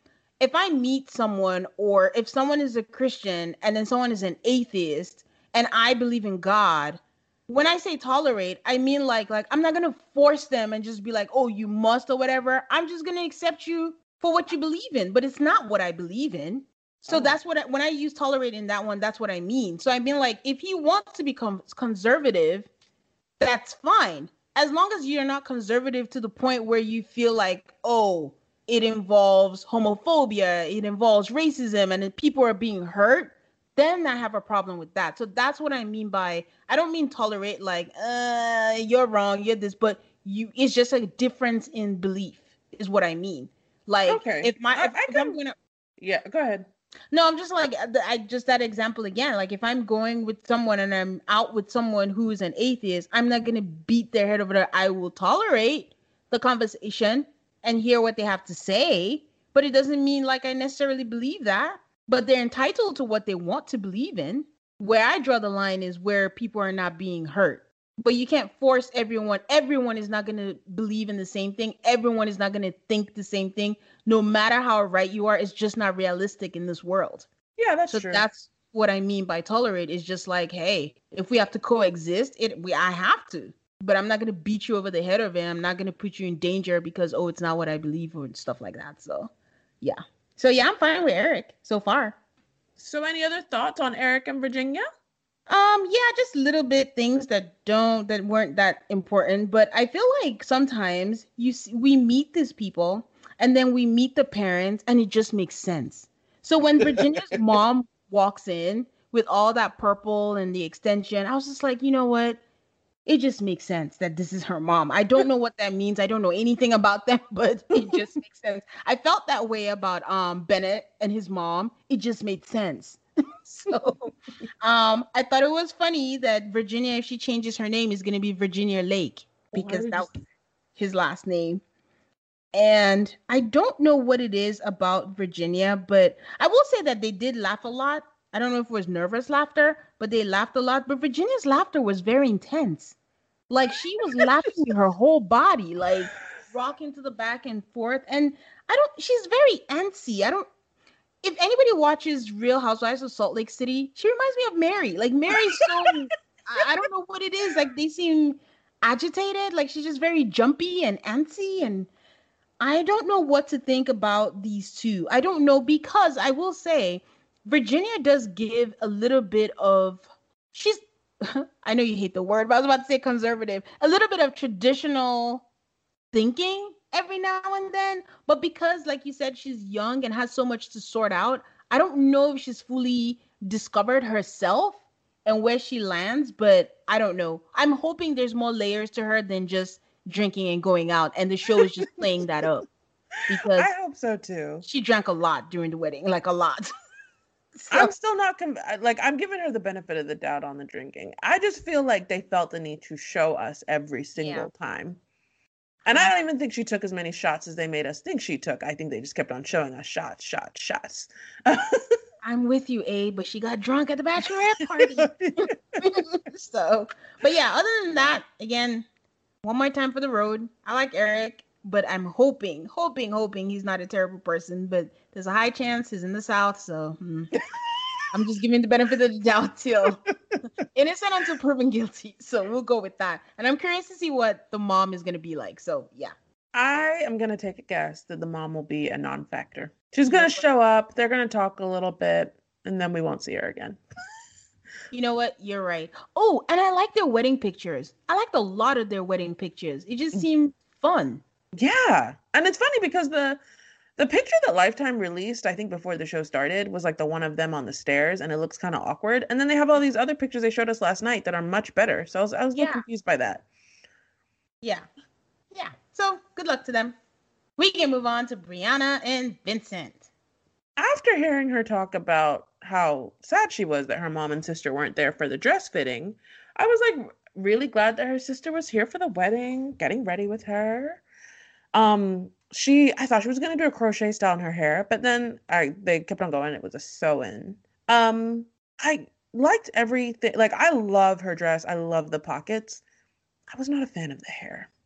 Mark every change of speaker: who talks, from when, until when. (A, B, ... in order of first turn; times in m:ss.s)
0:00.4-0:22.7 A
0:17.1-0:17.3 B
0:23.4-0:45.5 A
0:44.0-0:45.4 B
0:46.0-0:46.7 B
0:47.1-1:17.3 A
1:17.6-1:18.2 B
1:17.9-1:32.2 A
1:32.8-1:34.8 B
1:35.5-1:52.4 A
1:53.0-2:04.0 A
1:57.8-1:58.0 B
2:04.6-2:10.1 A
2:09.5-2:10.2 B
2:10.8-2:11.6 A
2:12.5-2:22.9 A
2:23.5-2:30.5 A
2:31.2-2:41.9 A
2:42.6-2:55.4 A
2:56.1-3:12.6 A
3:11.6-3:11.9 B
3:13.3-3:13.7 A
3:13.3-3:14.6 B
3:14.6-3:16.7 A
3:17.6-3:17.9 A
3:17.7-3:25.0 B
3:24.2-3:24.5 A
3:25.8-3:32.0 B
3:32.2-3:38.8 A
3:34.8-3:35.9 B
3:39.4-3:47.3 A
3:47.5-3:48.0 B
3:48.1-3:50.0 A
3:50.7-3:56.1 A
3:56.5-4:03.8 B
4:00.1-4:00.4 A
4:04.9-4:11.2 A
4:11.6-4:13.4 B
4:14.0-4:23.4 B
4:22.6-4:22.8 A
4:25.5-4:27.0 A
4:27.6-4:30.1 A
4:30.8-4:41.0 B
4:41.7-4:52.8 B
4:53.5-4:54.7 B